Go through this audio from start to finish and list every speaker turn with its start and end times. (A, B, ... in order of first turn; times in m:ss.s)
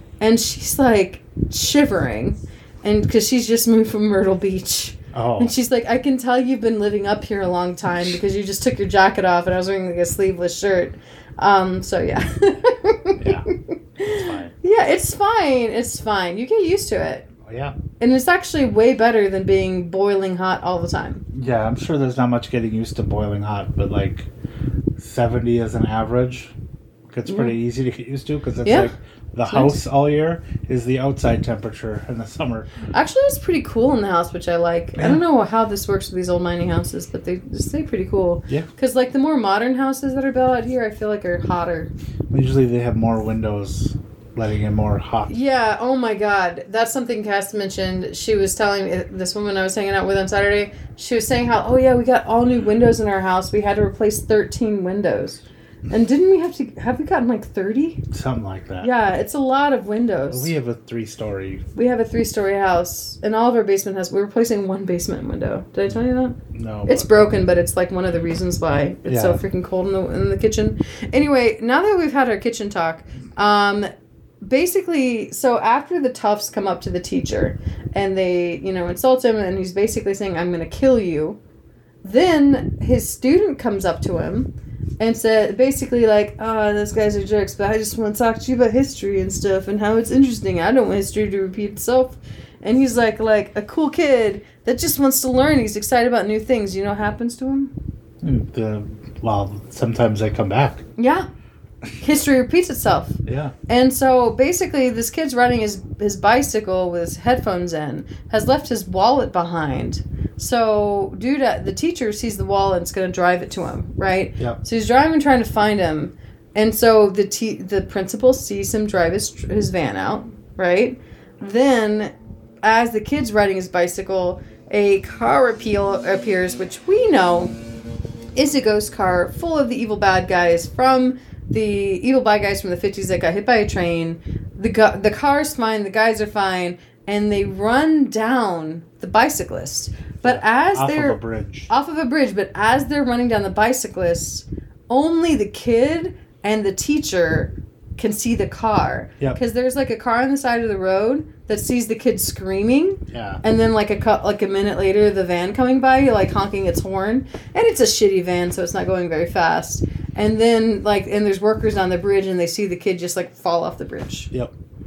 0:00.2-0:17.3 A
0:05.1-0:05.5 B
0:13.2-0:13.4 B
0:14.1-0:14.5 B
0:17.4-0:17.8 B
0:18.0-0:21.2 A
0:21.3-0:24.3 B
0:25.0-0:26.5 B
0:27.1-0:32.7 B
0:27.3-0:27.6 A
0:28.6-0:28.9 A
0:29.5-0:29.8 A
0:32.9-0:41.9 A
0:35.0-0:35.2 B
0:42.3-0:45.3 B
0:45.3-0:58.0 A
0:58.1-0:58.9 B
0:58.8-1:00.5 A
1:00.3-1:01.6 B
1:01.7-1:13.9 A
1:06.5-1:07.4 B
1:09.0-1:09.4 B
1:14.4-1:21.4 A
1:22.0-1:37.7 A
1:38.2-1:40.8 B
1:41.0-1:41.3 A
1:42.0-2:07.6 A
1:43.2-1:43.5 B
2:08.4-2:44.3 A
2:20.2-2:21.7 B
2:33.1-2:33.4 B